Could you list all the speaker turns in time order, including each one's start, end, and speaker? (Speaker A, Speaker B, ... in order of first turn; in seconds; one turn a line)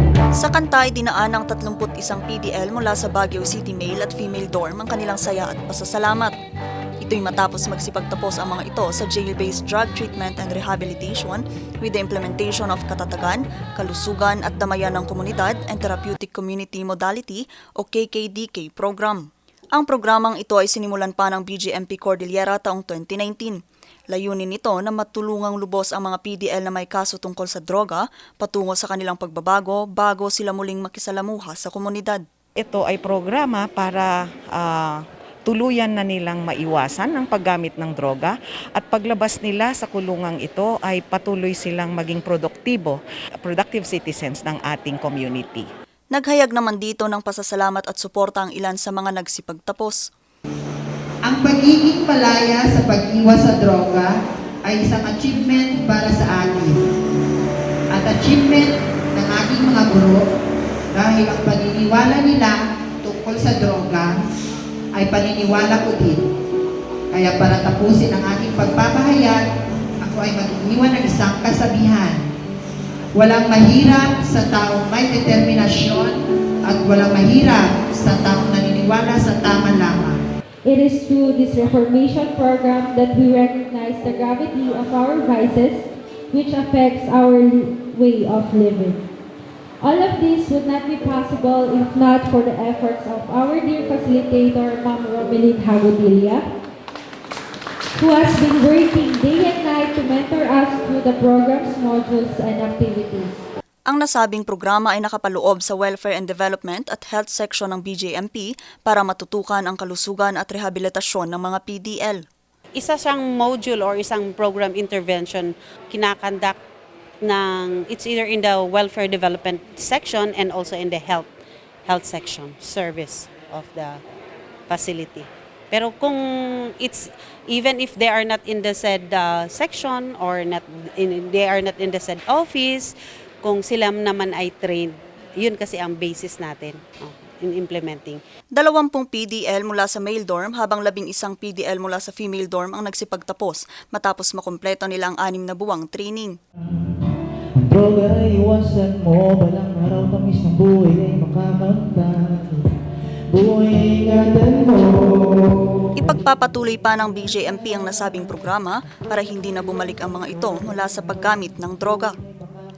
Speaker A: 0.3-6.3
Speaker A: 7.0-23.6
Speaker A: 24.1-32.2
Speaker B: 32.6-45.6
Speaker A: 46.1-50.0
Speaker C: 51.2-54.1
Speaker C: 54.6-56.8
Speaker C: 57.9-60.2
Speaker C: 60.9-64.2
Speaker C: 64.9-66.2
Speaker C: 67.1-69.4
Speaker C: 70.0-72.2
Speaker C: 73.1-80.2
Speaker D: 80.6-89.0
Speaker D: 89.8-96.5
Speaker D: 97.9-103.4
Speaker A: 103.9-112.2
Speaker E: 112.8-116.5
Speaker E: 117.2-121.3
Speaker E: 121.8-124.0
Speaker E: 124.7-126.2
Speaker E: 126.8-138.2
Speaker A: 138.5-146.3
Speaker F: 146.7-152.7
Speaker F: 153.3-155.6
Speaker A: 155.9-162.1